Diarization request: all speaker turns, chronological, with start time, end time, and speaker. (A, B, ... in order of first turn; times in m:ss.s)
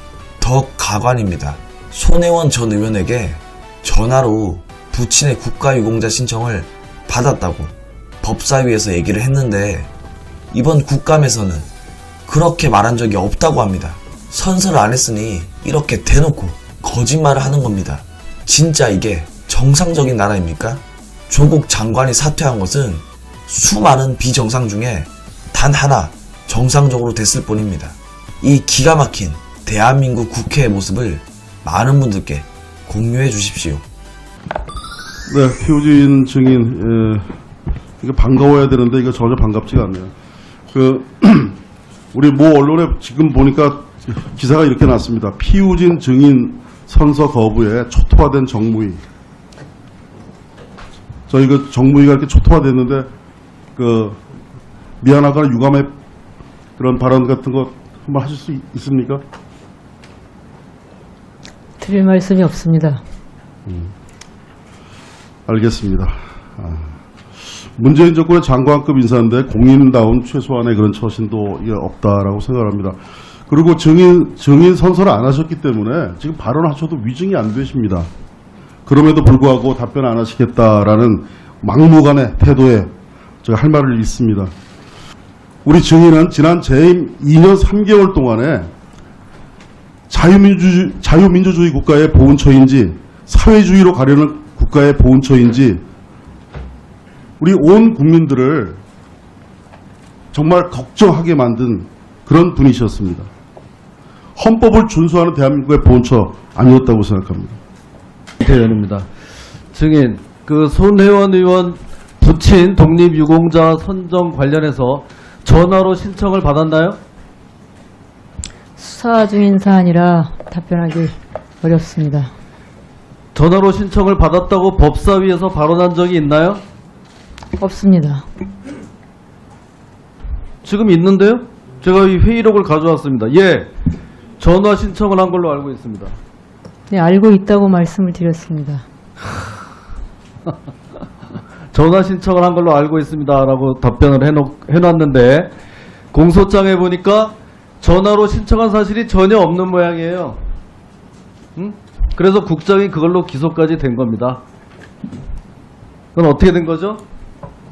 0:00.4-0:09.9 A
0:10.5-0:11.7 A
0:12.3-0:33.8 A
0:35.3-0:37.3 B
0:38.0-0:40.1 B
0:40.7-0:41.6 B
0:42.1-0:49.0 B
0:51.3-0:53.1 B
0:53.8-0:54.2 B
0:55.0-0:55.9 B
0:56.8-0:59.2 B
1:01.8-1:03.0 C
1:03.7-1:03.9 B
1:05.5-1:07.0 B
1:07.8-1:18.1 B
1:18.8-1:22.9 B
1:23.4-1:24.5 B
1:25.6-1:28.7 B
1:30.1-1:35.8 B
1:37.4-1:38.8 B
1:40.3-1:43.3 B
1:44.4-1:47.6 B
1:48.4-1:49.1 D
1:49.7-1:57.0 D
1:58.8-2:02.3 C
2:03.3-2:06.6 D
2:07.6-2:08.2 C
2:10.6-2:13.7 D
2:14.4-2:16.1 D
2:16.9-2:18.8 C
2:21.7-2:25.5 D
2:26.1-2:30.4 D
2:31.6-2:34.4 D
2:36.1-2:37.0 D